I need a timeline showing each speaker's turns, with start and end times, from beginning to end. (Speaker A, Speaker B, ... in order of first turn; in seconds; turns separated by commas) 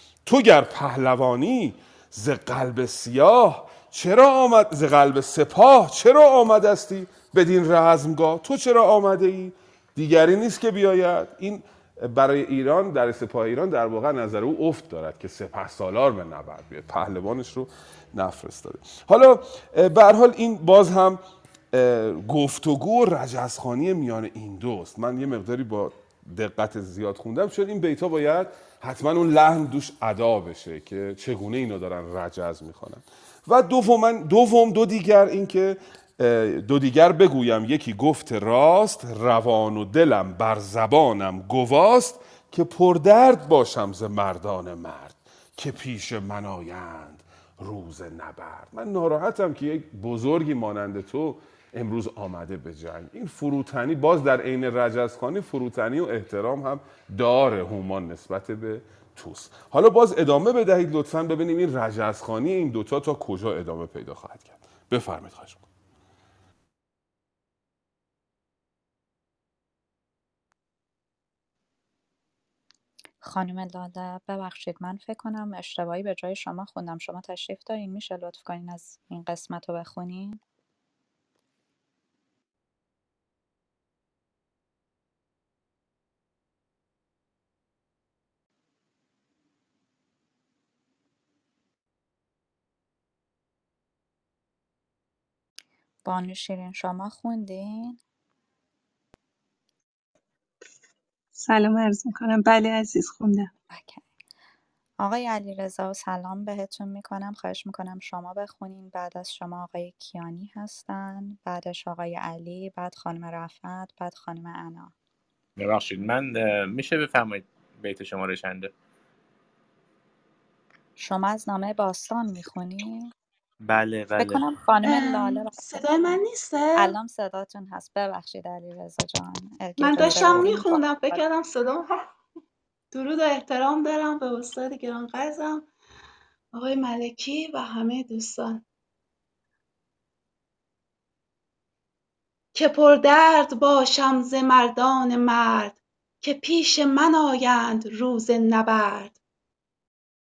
Speaker A: 0.2-21.2, Speaker A: 21.7-65.6, Speaker B: 73.2-80.4, Speaker B: 96.0-98.0, Speaker C: 101.4-103.5, Speaker B: 103.7-104.0, Speaker B: 105.0-114.9, Speaker D: 115.6-118.7, Speaker B: 121.0-123.1, Speaker D: 123.6-124.5, Speaker B: 124.1-125.5, Speaker E: 124.8-127.0, Speaker B: 126.7-131.2, Speaker E: 129.8-132.1, Speaker D: 130.0-130.5, Speaker E: 132.9-135.7, Speaker E: 136.5-138.6, Speaker E: 142.5-149.2